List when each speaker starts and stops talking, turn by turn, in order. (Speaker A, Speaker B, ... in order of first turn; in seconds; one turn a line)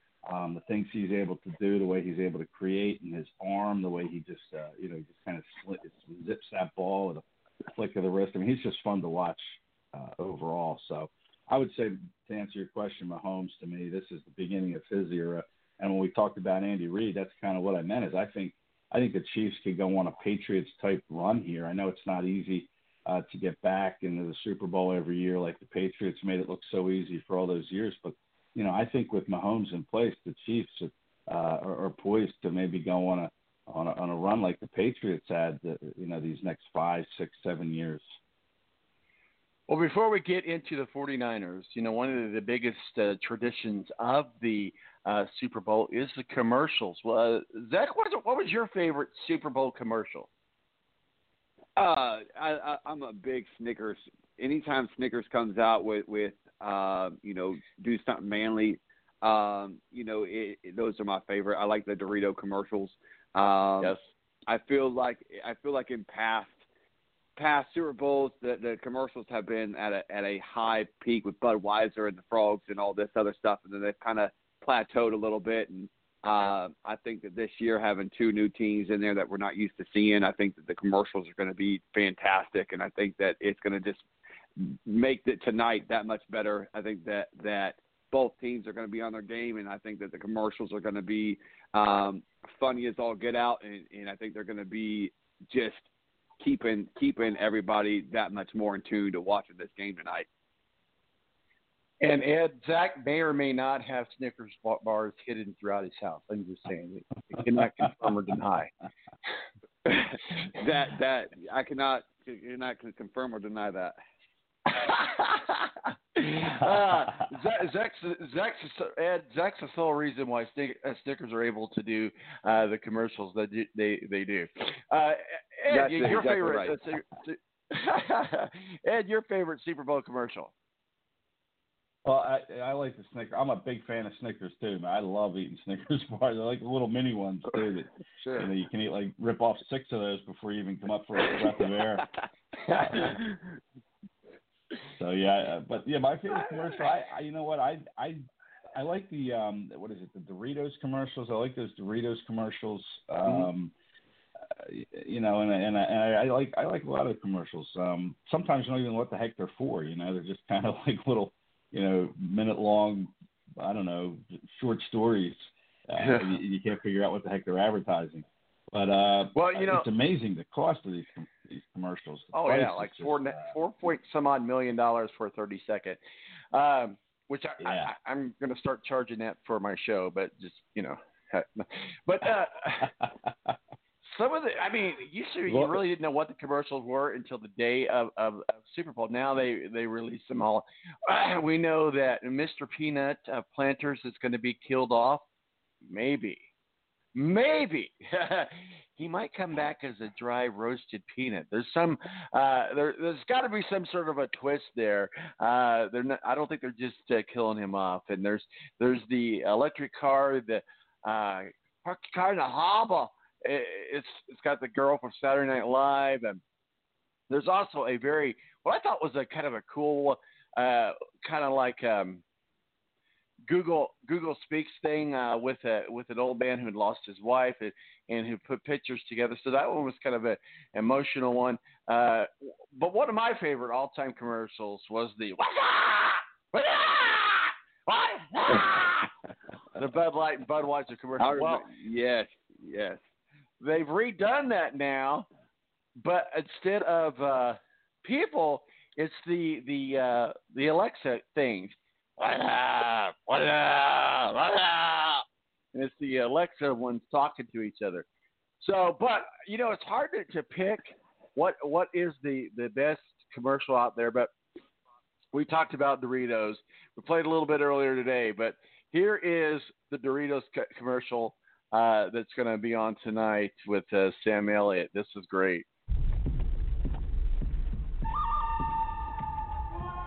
Speaker A: 0.2-7.2
Speaker A: 7.8-38.1
Speaker B: 39.7-50.3
Speaker C: 51.8-64.0
Speaker C: 64.5-66.6
Speaker C: 67.4-84.0
Speaker C: 84.6-95.9
Speaker C: 96.4-100.2
Speaker B: 102.0-108.7
Speaker C: 110.6-114.0
Speaker B: 114.7-130.5
Speaker C: 125.7-126.8
Speaker A: 132.0-142.0
Speaker A: 144.9-148.2
Speaker A: 148.7-153.7
Speaker A: 154.7-173.5
Speaker B: 166.0-166.3
Speaker B: 169.3-169.9
Speaker B: 172.3-176.0
Speaker B: 176.5-182.9
Speaker A: 177.6-177.9
Speaker B: 184.1-195.2
Speaker A: 185.5-185.8
Speaker B: 195.8-196.5
Speaker B: 197.1-216.4
Speaker B: 217.3-222.2
Speaker B: 223.5-239.1
Speaker B: 239.8-241.7
Speaker C: 241.2-243.0
Speaker B: 243.6-245.2
Speaker B: 246.0-258.0
Speaker B: 258.6-264.3
Speaker B: 265.3-275.6